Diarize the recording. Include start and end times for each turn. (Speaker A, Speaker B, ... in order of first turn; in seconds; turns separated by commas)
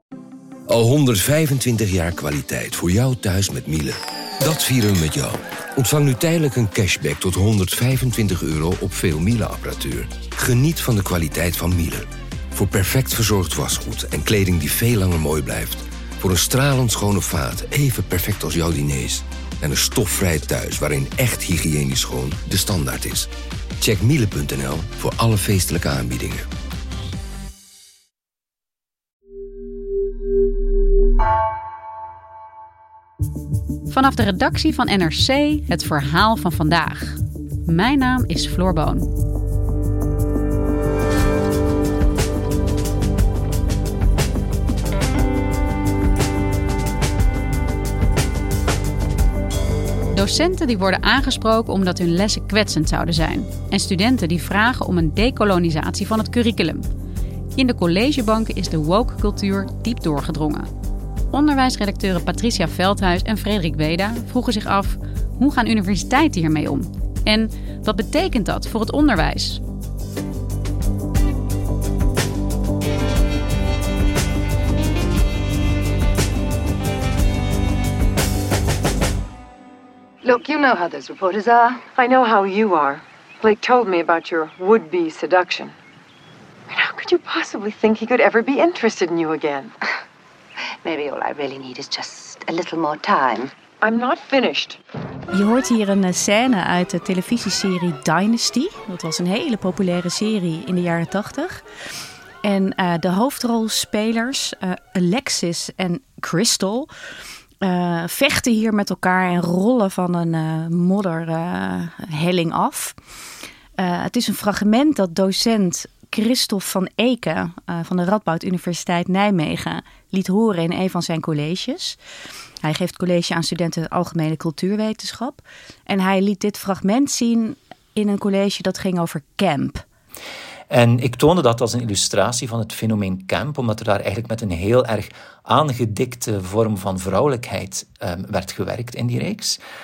Speaker A: 0.7-23.3, Speaker A: 23.8-26.4, Speaker B: 33.9-39.1, Speaker B: 50.1-56.8, Speaker B: 57.5-60.7, Speaker B: 61.3-69.6, Speaker C: 80.2-81.9, Speaker D: 81.9-85.8, Speaker D: 86.7-89.7, Speaker C: 90.8-93.5, Speaker D: 93.7-94.8, Speaker E: 95.3-101.6, Speaker E: 102.4-106.9, Speaker E: 107.6-113.0, Speaker E: 113.8-122.0, Speaker E: 122.6-129.8, Speaker F: 130.7-139.6